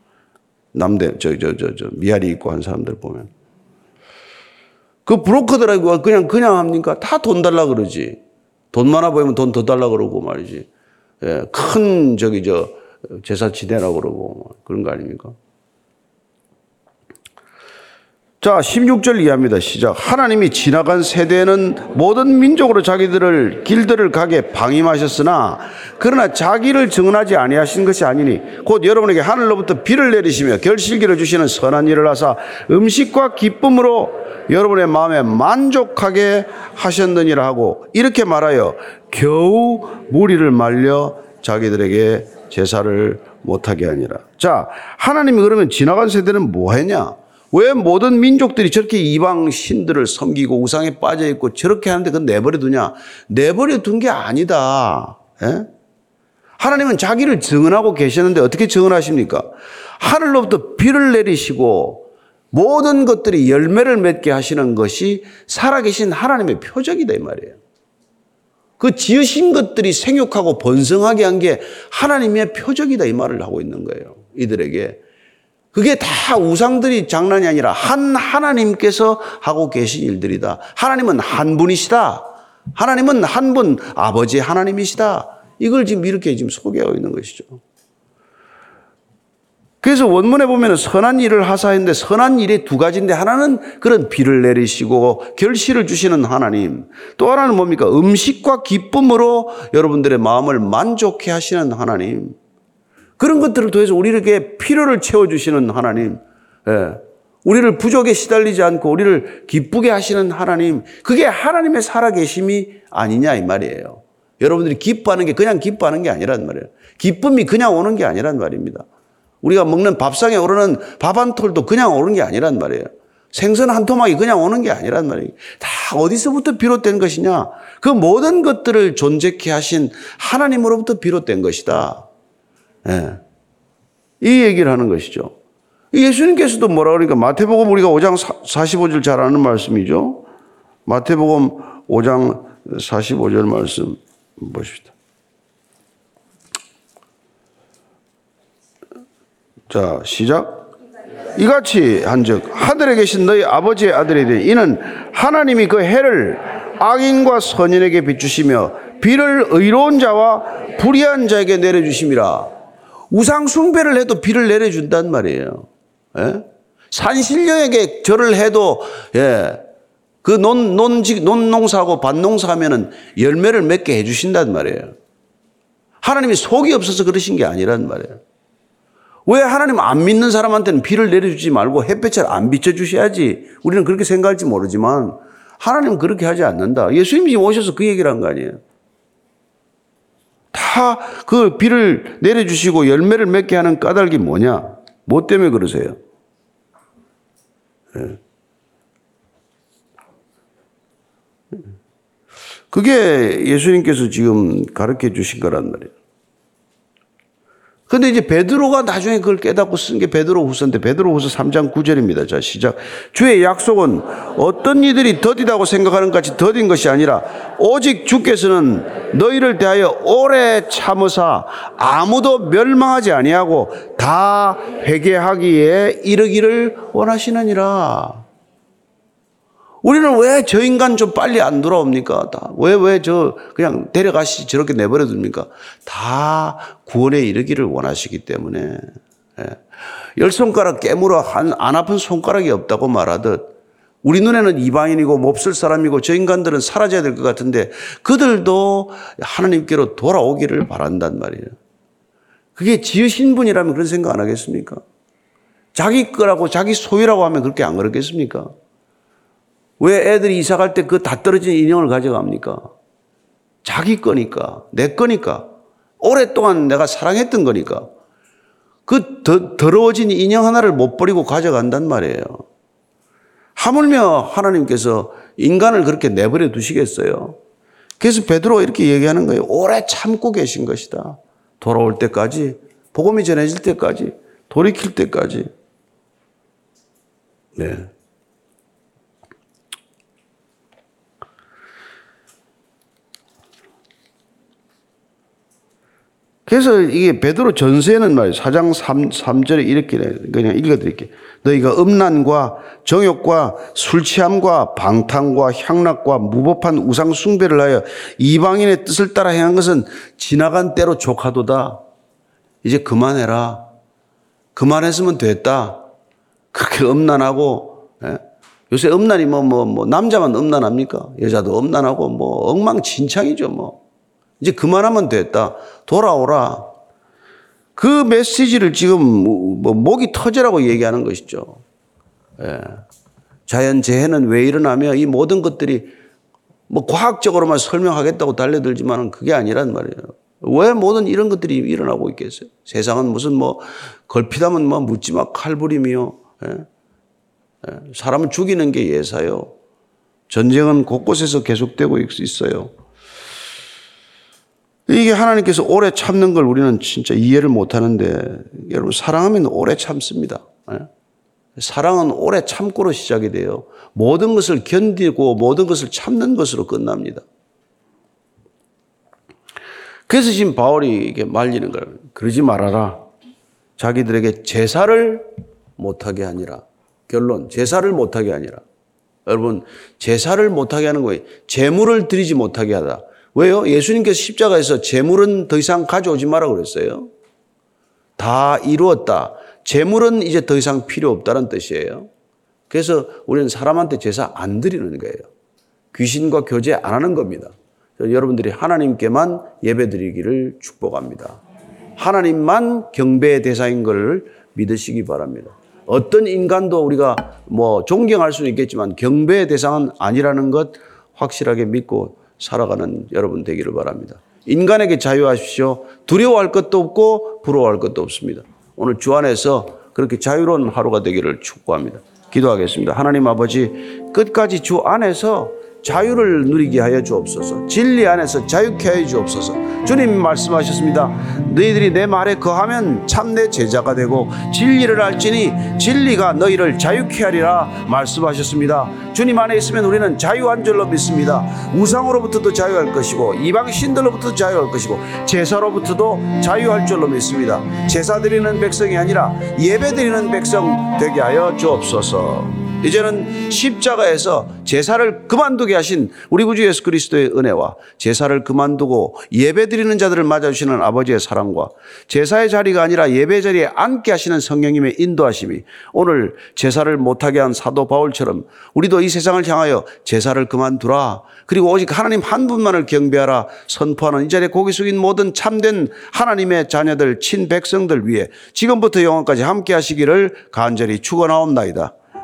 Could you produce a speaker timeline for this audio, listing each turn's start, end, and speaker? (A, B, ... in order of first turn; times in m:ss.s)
0:00.7-0:03.3 A
0:05.0-0:08.2 A
0:08.7-0:10.7 A
0:11.2-0:15.3 A
0:18.4-0:55.7 A
0:56.6-1:07.6 A
1:08.8-1:15.0 A
1:15.7-1:27.6 A
1:29.8-1:42.4 A
1:43.2-1:58.8 A
1:59.4-2:12.1 A
2:12.8-2:13.2 A
2:14.2-2:15.3 A
2:15.9-2:20.3 A
2:20.8-2:24.9 A
2:29.7-2:30.6 A
2:31.4-2:42.5 A
2:43.1-2:49.6 A
2:50.2-2:54.9 A
2:56.0-2:58.2 A
2:59.3-3:08.6 A
3:10.5-3:16.0 A
3:22.7-3:25.9 A
3:27.9-3:48.2 A
3:49.8-3:59.6 A
4:00.2-4:03.4 A
4:04.0-4:11.6 A
4:12.6-4:14.8 A
4:15.7-4:18.5 A
4:19.8-4:22.7 A
4:23.6-4:25.5 A
4:26.0-4:27.9 A
4:28.9-4:32.4 A
4:33.6-4:37.4 A
4:38.0-4:45.5 A
4:47.6-4:47.9 A
4:56.5-5:11.8 A
5:12.6-5:13.6 A
5:14.5-5:15.8 A
5:16.5-5:23.8 A
5:24.4-5:26.7 A
5:27.8-5:31.6 A
5:32.4-5:32.8 A
5:33.5-5:35.9 A
5:36.7-5:46.7 A
5:47.6-5:49.5 A
5:50.3-5:52.7 A
5:54.9-6:00.9 A
6:01.6-6:07.2 A
6:10.1-6:13.0 A
6:13.8-6:18.6 A
6:19.2-6:27.1 A
6:28.2-6:32.1 A
6:32.7-6:35.3 A
6:35.9-6:41.4 A
6:42.0-8:01.9 A